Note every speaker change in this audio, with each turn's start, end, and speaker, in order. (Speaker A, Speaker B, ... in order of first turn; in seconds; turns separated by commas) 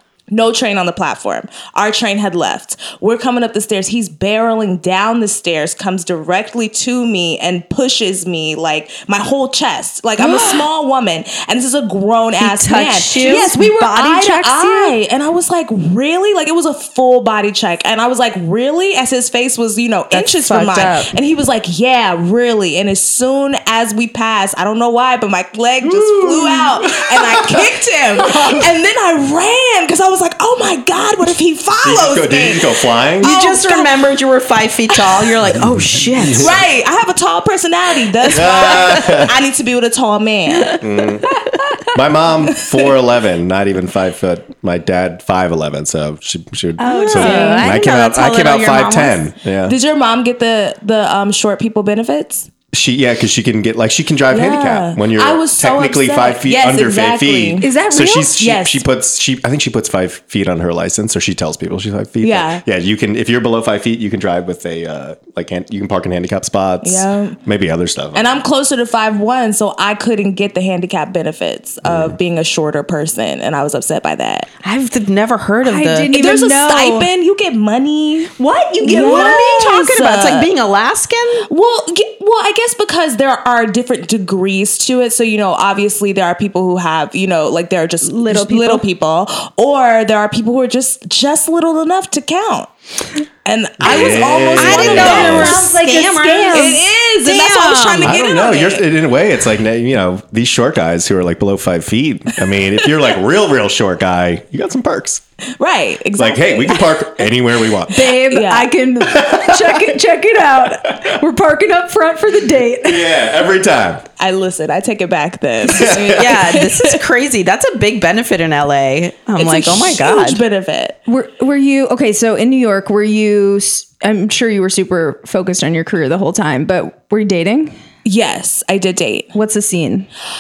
Speaker A: 0.3-33.9, Speaker B: 10.2-10.6, Speaker C: 12.4-13.5, Speaker B: 13.2-14.9, Speaker C: 20.1-21.1, Speaker D: 25.9-26.3, Speaker D: 26.9-27.6, Speaker D: 31.8-33.3, Speaker C: 33.2-36.5, Speaker D: 35.6-36.5, Speaker A: 36.3-40.8, Speaker D: 38.3-39.3, Speaker D: 40.8-49.7, Speaker B: 46.8-47.7, Speaker C: 46.9-49.2, Speaker A: 49.6-52.5, Speaker D: 52.7-68.4, Speaker A: 54.3-57.7, Speaker B: 57.6-58.4, Speaker A: 58.4-58.8, Speaker A: 62.2-62.6, Speaker A: 66.8-67.4, Speaker A: 68.1-74.5, Speaker D: 71.8-72.2, Speaker C: 74.6-76.1, Speaker B: 75.6-77.1, Speaker A: 76.1-78.3, Speaker C: 78.4-81.5, Speaker A: 78.8-80.5, Speaker B: 78.9-79.3, Speaker A: 81.5-92.7, Speaker B: 88.0-88.8, Speaker A: 93.5-95.6, Speaker D: 93.8-95.6, Speaker C: 93.9-98.1, Speaker B: 95.1-96.8, Speaker A: 96.5-98.8, Speaker D: 98.0-105.2, Speaker A: 105.6-107.2, Speaker D: 106.2-107.9, Speaker B: 107.9-113.1, Speaker A: 108.1-108.7, Speaker D: 109.1-109.9, Speaker D: 112.8-114.0, Speaker A: 114.2-117.0, Speaker D: 115.6-116.3, Speaker C: 116.1-120.4, Speaker A: 119.4-121.0, Speaker B: 121.1-127.8, Speaker A: 128.0-129.3, Speaker B: 129.3-130.1